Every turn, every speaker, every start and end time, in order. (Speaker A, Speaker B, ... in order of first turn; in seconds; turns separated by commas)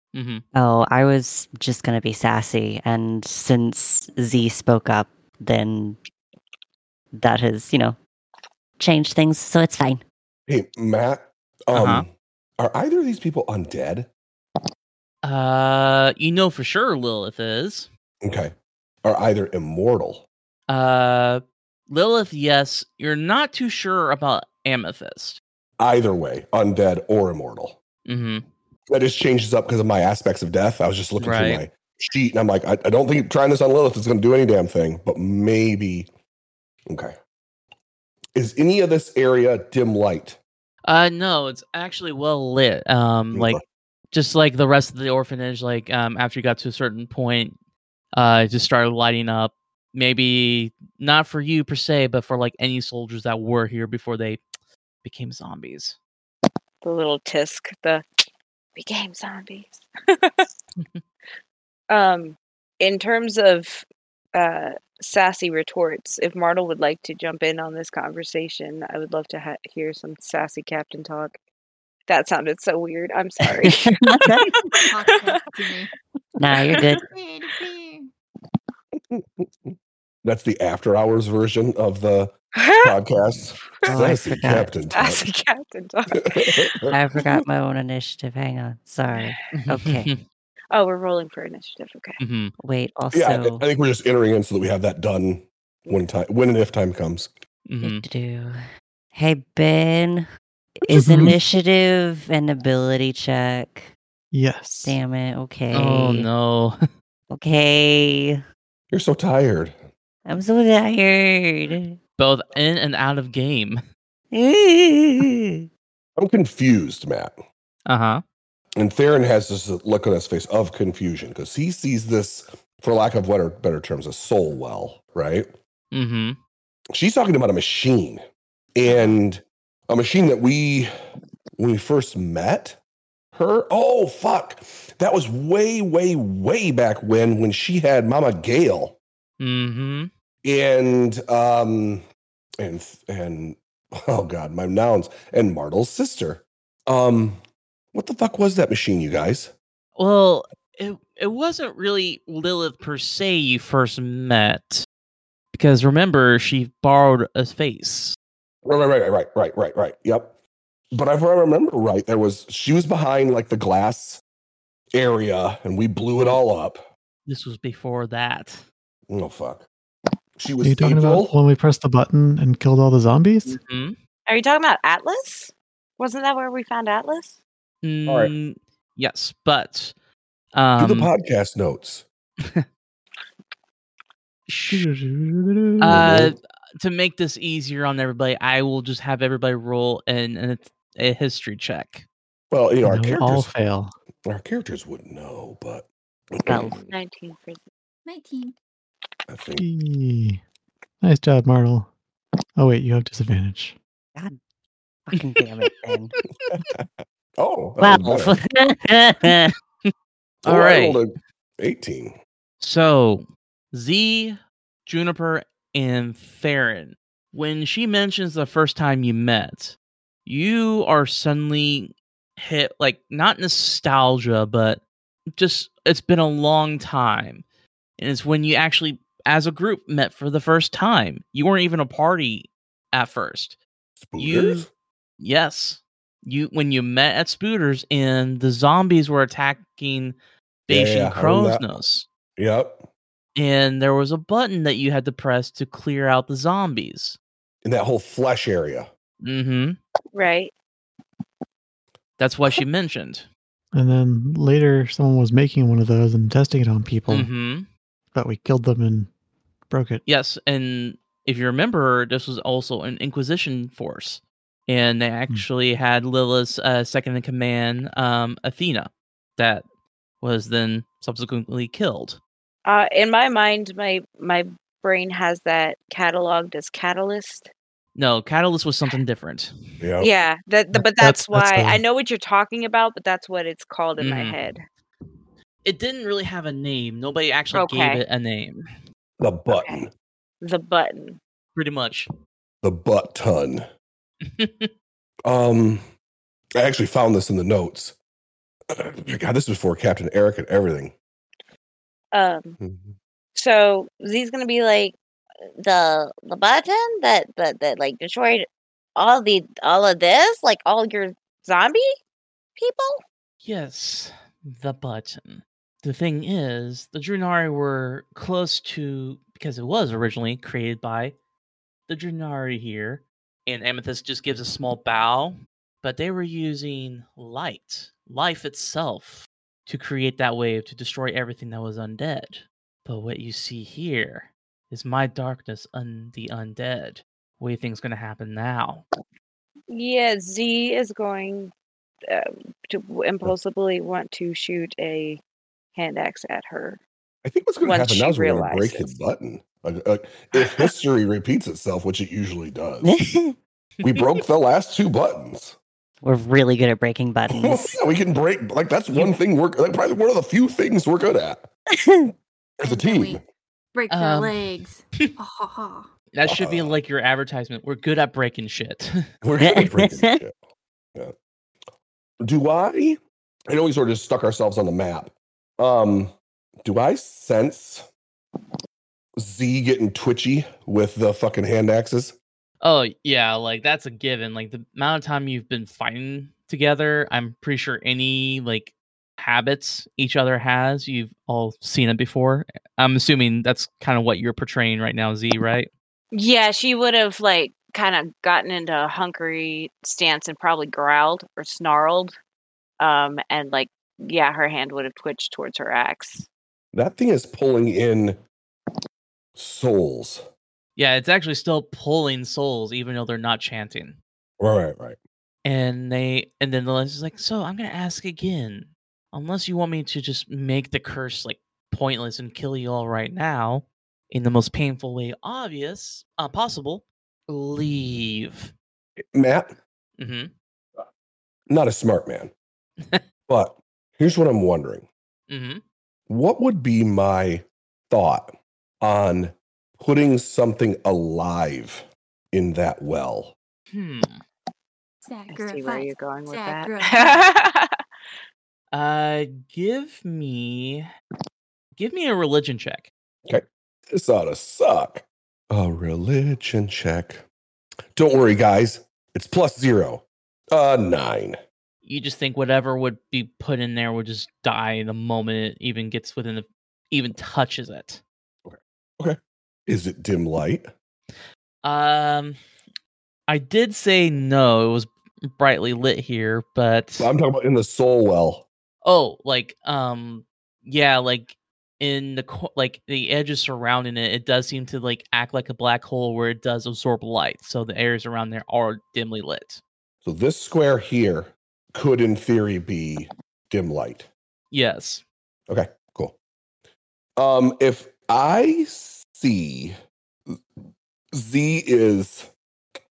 Speaker A: 0.1-0.4, Speaker B: 0.6-6.0, Speaker B: 7.2-8.0, Speaker B: 8.8-10.0, Speaker C: 10.5-14.1, Speaker A: 11.7-12.1, Speaker A: 15.2-17.9, Speaker C: 18.2-20.3, Speaker A: 20.7-25.4, Speaker C: 25.8-27.8, Speaker A: 28.1-28.4, Speaker C: 28.9-36.1, Speaker A: 31.2-31.6, Speaker C: 36.9-37.2, Speaker C: 38.4-40.4, Speaker A: 40.9-43.6, Speaker C: 43.3-43.6, Speaker A: 44.1-47.5, Speaker A: 48.1-54.4, Speaker A: 55.0-56.0, Speaker D: 56.8-58.0, Speaker D: 58.8-60.5, Speaker D: 61.9-71.3, Speaker D: 72.1-75.6, Speaker B: 73.6-74.5, Speaker E: 74.7-75.9, Speaker B: 76.4-77.0, Speaker D: 76.7-77.0, Speaker E: 76.9-78.1, Speaker C: 79.0-85.2, Speaker D: 82.6-83.0, Speaker B: 83.9-84.7, Speaker D: 84.9-87.4, Speaker C: 86.3-86.8, Speaker B: 86.9-90.1, Speaker A: 89.5-90.2, Speaker D: 90.7-92.2, Speaker A: 92.2-92.5, Speaker B: 92.6-93.6, Speaker C: 93.1-97.3, Speaker D: 95.9-96.1, Speaker A: 97.7-98.0, Speaker B: 97.8-98.6, Speaker B: 99.1-100.3, Speaker B: 100.8-103.9, Speaker F: 100.9-101.4, Speaker F: 104.3-105.0, Speaker B: 104.8-106.3, Speaker A: 105.7-106.8, Speaker B: 107.3-108.4, Speaker C: 108.9-109.8, Speaker B: 110.3-112.0, Speaker A: 112.2-113.8, Speaker B: 114.3-115.6, Speaker C: 116.2-117.4, Speaker A: 117.9-118.2, Speaker C: 118.8-125.5, Speaker A: 125.9-126.4, Speaker C: 126.9-128.2, Speaker C: 128.8-130.9, Speaker C: 131.6-132.8, Speaker C: 133.3-139.0, Speaker A: 139.4-140.1, Speaker C: 140.4-142.0, Speaker C: 142.6-147.4, Speaker C: 147.9-149.5, Speaker A: 150.0-154.9, Speaker A: 155.5-158.2, Speaker C: 158.7-160.4, Speaker C: 160.9-164.2, Speaker C: 164.9-166.9, Speaker A: 167.3-168.6, Speaker C: 169.1-169.7, Speaker C: 170.4-171.4, Speaker F: 170.6-173.6, Speaker A: 173.5-174.0, Speaker D: 174.3-177.4, Speaker A: 177.8-179.9, Speaker C: 178.1-178.3, Speaker A: 180.5-181.1, Speaker C: 180.8-182.1, Speaker A: 184.5-184.9, Speaker F: 184.7-186.0, Speaker A: 185.8-192.1, Speaker C: 185.9-186.3, Speaker C: 192.5-193.5, Speaker F: 192.8-193.9, Speaker C: 194.3-196.7, Speaker B: 196.5-196.8, Speaker D: 196.5-197.6, Speaker E: 198.1-198.6, Speaker C: 199.3-199.7, Speaker F: 199.6-200.4, Speaker F: 201.0-201.9, Speaker F: 202.6-203.8, Speaker B: 205.1-206.1, Speaker C: 206.6-206.9, Speaker C: 207.4-208.4, Speaker B: 207.8-209.5, Speaker C: 210.4-212.2, Speaker A: 210.4-211.0, Speaker A: 212.6-224.8, Speaker A: 225.3-227.4, Speaker A: 228.0-233.6, Speaker C: 234.0-234.7, Speaker A: 234.2-234.7, Speaker A: 235.2-242.1, Speaker C: 240.7-241.7, Speaker C: 242.4-242.9, Speaker A: 243.4-247.2, Speaker C: 247.6-248.9, Speaker A: 249.2-249.8, Speaker D: 250.1-250.5, Speaker A: 252.2-253.3, Speaker F: 253.7-257.3, Speaker A: 257.1-257.7, Speaker F: 258.1-259.1, Speaker F: 259.7-260.0, Speaker A: 260.1-269.6, Speaker A: 270.2-272.2, Speaker D: 272.6-277.5, Speaker A: 277.9-279.5, Speaker C: 279.8-280.1, Speaker D: 280.0-284.6, Speaker F: 280.7-281.8, Speaker A: 284.0-284.4, Speaker A: 285.6-288.6, Speaker D: 287.5-288.0, Speaker C: 289.2-289.9, Speaker D: 289.5-289.8, Speaker D: 290.4-291.2, Speaker A: 291.6-292.1, Speaker C: 292.6-293.6, Speaker A: 294.2-294.7, Speaker C: 295.2-295.8, Speaker C: 296.6-298.0, Speaker C: 298.7-300.9, Speaker D: 302.1-302.6, Speaker C: 302.6-303.0, Speaker D: 303.4-305.0, Speaker D: 305.6-311.9, Speaker D: 312.6-313.0, Speaker A: 313.4-321.1, Speaker A: 321.9-338.8, Speaker D: 339.7-341.5, Speaker D: 342.1-345.2, Speaker D: 345.8-346.8, Speaker C: 347.2-352.9, Speaker D: 347.6-348.9, Speaker B: 352.8-353.3, Speaker C: 353.8-355.6, Speaker B: 356.0-357.7, Speaker C: 357.3-361.5, Speaker B: 361.9-362.1, Speaker C: 362.6-363.2, Speaker E: 362.6-363.2, Speaker E: 363.7-365.9, Speaker A: 363.9-364.5, Speaker A: 366.1-368.9, Speaker C: 366.2-366.8, Speaker C: 369.2-370.4, Speaker B: 369.4-370.2, Speaker C: 372.2-377.8, Speaker C: 379.2-382.2, Speaker A: 382.6-395.7, Speaker D: 396.1-402.1, Speaker D: 402.8-406.3, Speaker C: 406.7-408.2, Speaker C: 409.4-410.2, Speaker A: 410.8-414.0, Speaker C: 414.4-415.0, Speaker A: 415.4-428.5, Speaker C: 429.1-429.5, Speaker A: 430.0-430.3, Speaker C: 431.5-432.3, Speaker C: 433.3-434.9, Speaker A: 435.3-435.6, Speaker C: 436.1-443.4, Speaker A: 443.7-444.2, Speaker E: 445.0-447.3, Speaker D: 445.3-447.8, Speaker A: 448.7-450.9, Speaker A: 451.8-452.9, Speaker C: 453.3-457.2, Speaker C: 458.0-461.4, Speaker A: 461.9-468.0, Speaker C: 468.4-470.7, Speaker A: 471.6-472.4, Speaker A: 473.3-477.1, Speaker C: 477.0-478.4, Speaker A: 478.8-489.6, Speaker C: 490.0-494.1, Speaker A: 494.5-495.0, Speaker C: 495.5-496.2, Speaker C: 497.2-499.8, Speaker C: 501.1-502.3